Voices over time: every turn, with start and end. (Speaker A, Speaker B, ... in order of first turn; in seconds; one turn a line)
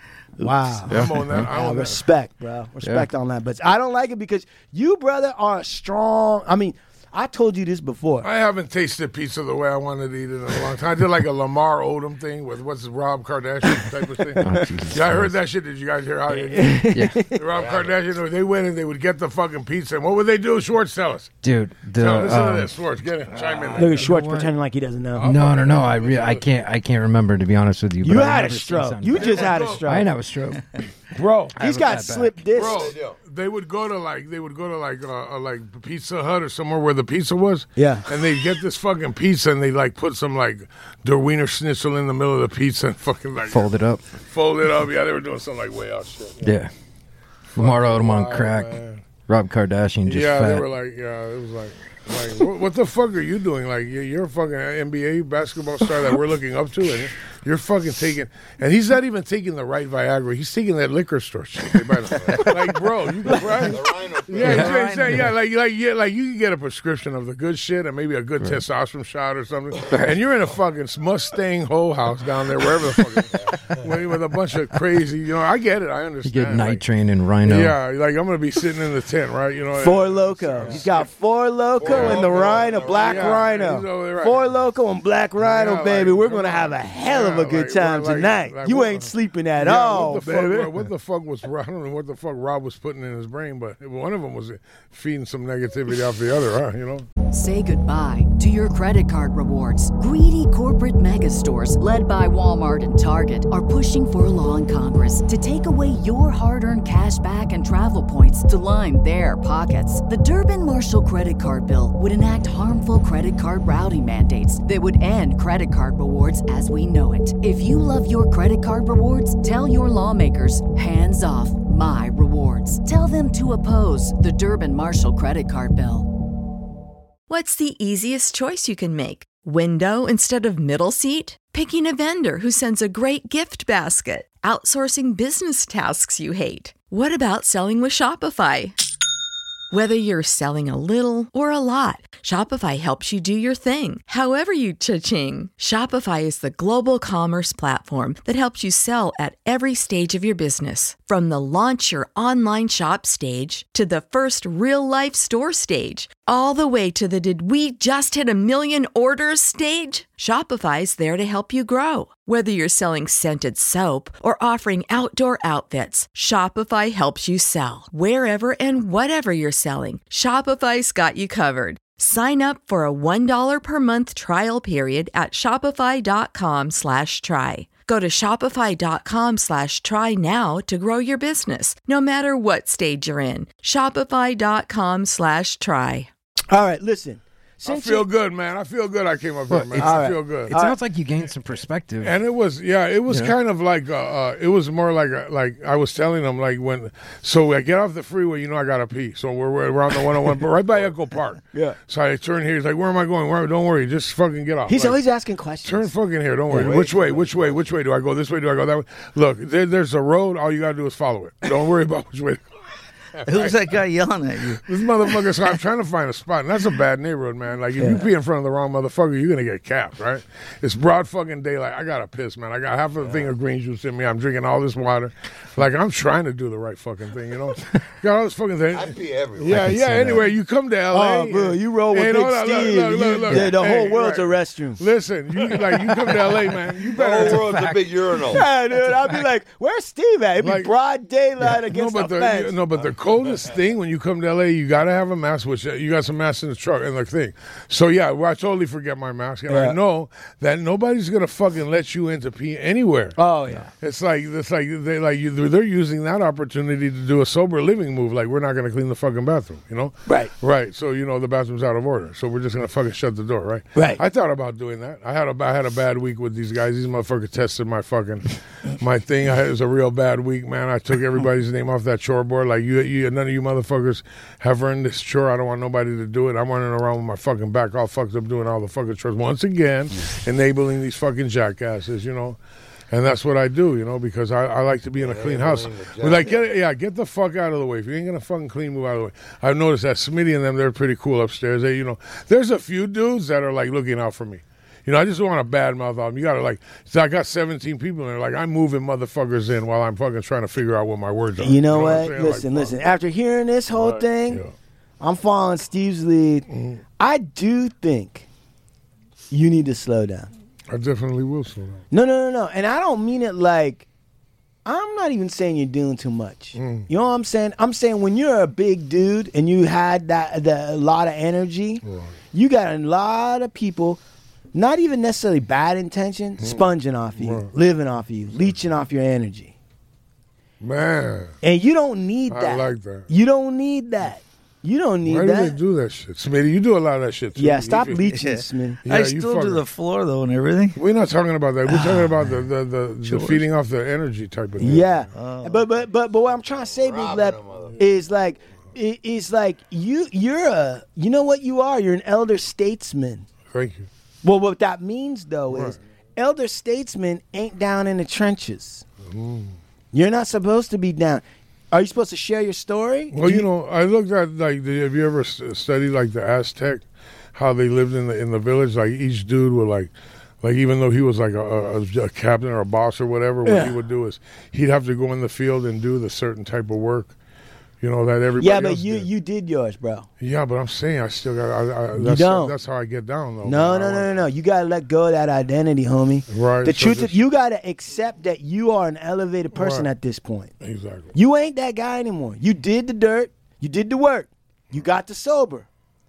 Speaker A: 0.4-8.3
Speaker B: 0.4-0.7
Speaker C: 0.9-1.5
Speaker D: 0.9-2.0
Speaker C: 2.8-3.1
Speaker D: 8.2-21.4
Speaker C: 14.4-15.4
Speaker A: 16.5-17.4
Speaker C: 16.9-17.3
Speaker E: 17.5-17.9
Speaker C: 21.4-22.7
Speaker D: 21.9-24.1
Speaker E: 23.3-24.1
Speaker A: 23.7-25.2
Speaker C: 24.0-24.5
Speaker D: 25.1-26.5
Speaker C: 25.2-30.9
Speaker A: 28.0-30.1
Speaker D: 29.1-29.8
Speaker D: 31.1-31.7
Speaker C: 31.6-32.4
Speaker A: 31.6-32.9
Speaker D: 32.5-46.5
Speaker E: 32.5-33.1
Speaker A: 37.8-38.0
Speaker C: 43.5-44.0
Speaker C: 46.4-46.7
Speaker C: 47.5-48.8
Speaker D: 47.6-49.0
Speaker C: 49.3-50.7
Speaker D: 50.0-76.8
Speaker E: 62.1-62.5
Speaker E: 63.2-64.8
Speaker B: 64.4-65.3
Speaker C: 64.5-65.3
Speaker C: 76.2-77.8
Speaker D: 77.4-81.1
Speaker A: 79.8-90.7
Speaker E: 81.8-83.6
Speaker D: 81.8-84.5
Speaker D: 85.4-97.1
Speaker F: 97.3-126.1
Speaker G: 127.3-138.7
Speaker G: 139.7-186.1
Speaker A: 186.5-188.1
Speaker D: 187.6-190.5
Speaker C: 189.5-192.2
Speaker A: 189.8-190.8
Speaker D: 192.0-205.0
Speaker C: 193.1-193.3
Speaker A: 204.7-205.9
Speaker D: 205.6-212.4
Speaker E: 206.5-207.6
Speaker A: 206.5-206.8
Speaker D: 213.2-213.6
Speaker B: 213.2-214.6
Speaker D: 214.6-237.8
Speaker A: 217.8-218.0
Speaker E: 228.7-229.7
Speaker C: 229.5-230.3
Speaker A: 230.9-234.8
Speaker A: 235.5-236.1
Speaker E: 236.9-238.4
Speaker A: 238.2-242.5
Speaker D: 240.4-240.7
Speaker D: 241.4-253.2
Speaker A: 249.5-249.8
Speaker A: 253.2-253.7
Speaker D: 253.7-282.4
Speaker A: 260.1-260.3
Speaker A: 263.7-264.0
Speaker D: 282.9-302.8
Speaker E: 285.0-286.5
Speaker A: 301.4-304.4
Speaker D: 303.7-304.5
Speaker A: 305.0-306.5
Speaker D: 306.5-306.8
Speaker A: 307.0-308.2
Speaker A: 309.3-310.3
Speaker D: 310.7-311.8
Speaker A: 311.9-313.9
Speaker A: 314.6-324.0
Speaker D: 316.6-316.9
Speaker D: 321.8-322.1
Speaker A: 324.5-329.5
Speaker D: 326.4-326.7
Speaker D: 327.2-327.5
Speaker D: 330.6-331.3
Speaker A: 331.4-335.6
Speaker D: 332.3-333.1
Speaker D: 335.0-338.1
Speaker A: 337.4-338.8
Speaker B: 338.1-340.8
Speaker D: 338.8-339.6
Speaker D: 340.8-345.0
Speaker B: 341.7-342.3
Speaker B: 343.0-343.4
Speaker A: 344.6-353.3
Speaker B: 345.1-345.7
Speaker E: 346.7-347.8
Speaker D: 353.5-353.9
Speaker A: 354.2-358.8
Speaker D: 355.5-355.8
Speaker D: 359.1-359.6
Speaker A: 359.9-363.5
Speaker D: 363.1-369.9
Speaker D: 370.4-377.1
Speaker A: 373.4-373.7
Speaker D: 377.8-379.1
Speaker A: 378.4-380.1
Speaker D: 380.2-384.2
Speaker A: 381.9-382.5
Speaker A: 383.4-390.5
Speaker D: 386.3-387.2
Speaker D: 389.5-389.9
Speaker D: 390.6-391.1
Speaker A: 391.1-395.6